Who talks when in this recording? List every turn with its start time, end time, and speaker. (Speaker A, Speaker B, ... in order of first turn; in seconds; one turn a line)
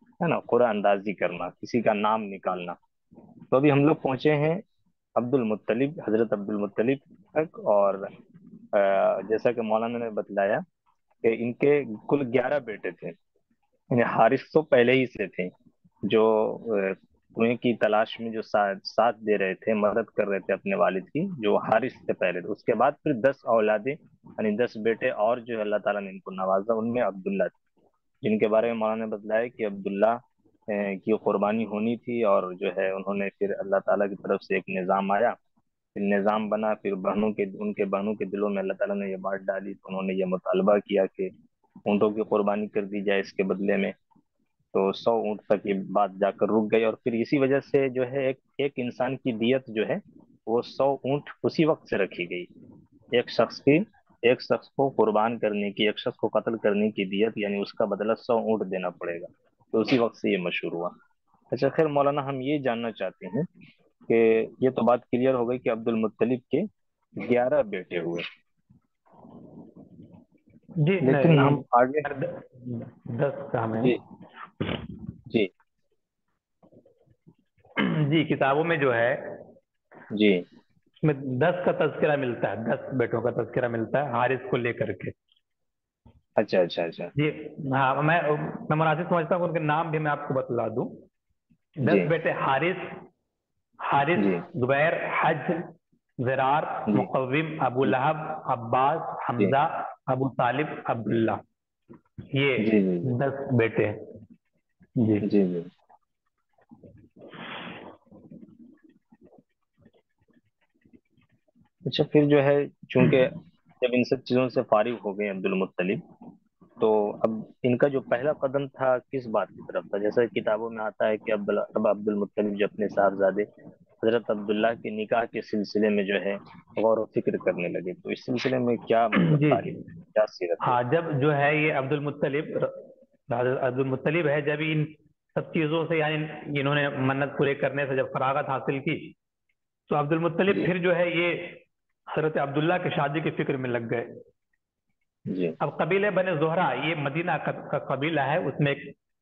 Speaker A: 0.2-2.8
Speaker A: 3.5-4.6
Speaker A: 5.2-8.1
Speaker A: 8.7-10.6
Speaker A: 11.2-13.2
Speaker A: 13.9-15.5
Speaker A: 16.0-27.5
Speaker A: 28.2-35.4
Speaker A: 36.0-41.3
Speaker A: 41.9-43.9
Speaker A: 44.7-52.5
Speaker A: 53.1-61.0
Speaker A: 61.5-63.5
Speaker A: 64.1-68.3
Speaker B: 70.8-74.0
Speaker A: 71.0-72.1
Speaker B: 77.8-79.5
Speaker A: 80.1-80.5
Speaker B: 81.0-85.1
Speaker A: 86.4-87.1
Speaker B: 87.2-91.0
Speaker B: 91.8-93.1
Speaker A: 91.9-92.1
Speaker B: 93.9-101.4
Speaker A: 94.2-94.4
Speaker B: 102.3-104.1
Speaker A: 102.6-103.1
Speaker B: 105.0-105.3
Speaker A: 105.2-105.7
Speaker A: 111.8-116.0
Speaker A: 116.8-123.5
Speaker A: 124.0-130.8
Speaker B: 129.2-129.7
Speaker B: 130.6-139.1
Speaker B: 139.9-144.2
Speaker A: 145.3-145.6
Speaker B: 145.6-148.9